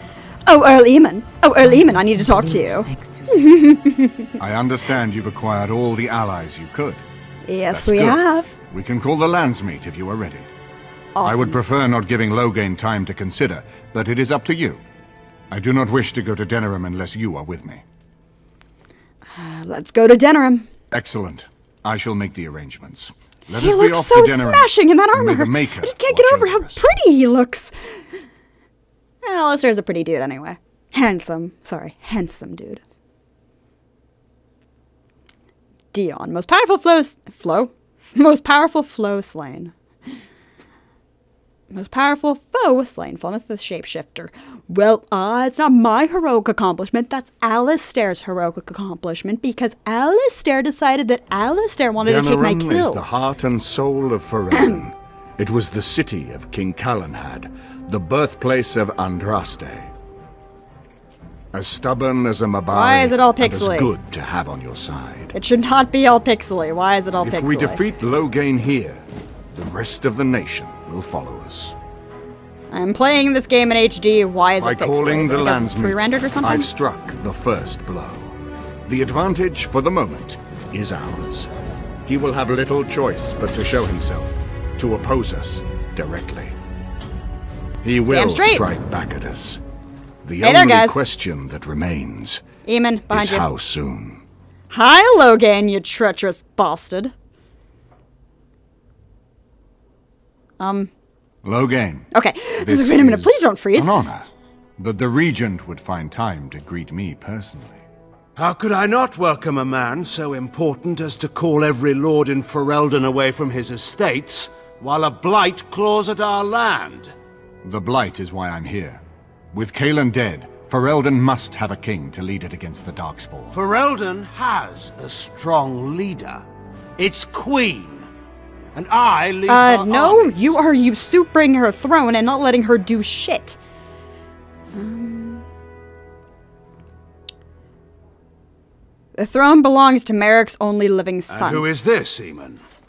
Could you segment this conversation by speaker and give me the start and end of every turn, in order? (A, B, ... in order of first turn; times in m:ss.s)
0:00.4-0:04.3 A
0:04.4-0:07.0 B
0:07.4-0:08.5 A
0:07.7-0:10.5 B
0:11.1-0:11.6 A
0:11.2-0:14.8 B
0:15.5-0:17.8 B
0:19.3-0:20.7 A
0:20.9-0:26.8 B
0:23.6-0:28.0 A
0:29.2-0:32.8 A
0:35.9-0:39.7 A
0:41.7-0:53.0 A
0:52.0-0:59.9 B
0:54.5-0:54.8 A
1:01.5-1:05.3 B
1:02.7-1:03.9 A
1:05.3-1:07.8 A
1:07.2-1:11.8 B
1:12.7-1:16.7 A
1:14.6-1:18.3 B
1:18.8-1:21.5 B
1:22.0-1:26.5 B
1:27.8-1:29.6 B
1:28.1-1:28.6 A
1:30.2-1:32.4 B
1:30.4-1:31.0 A
1:32.6-1:33.5 A
1:33.1-1:34.2 B
1:34.7-1:37.1 A
1:40.6-1:40.9 A
1:41.4-1:47.8 B
1:42.1-1:44.0 A
1:48.4-1:57.1 C
1:57.6-2:03.6 B
2:03.5-2:06.4 C
2:07.0-2:08.1 C
2:08.7-2:10.6 C
2:09.5-2:13.6 A
2:14.7-2:15.4 A
2:19.2-2:21.7 A
2:21.3-2:22.6 C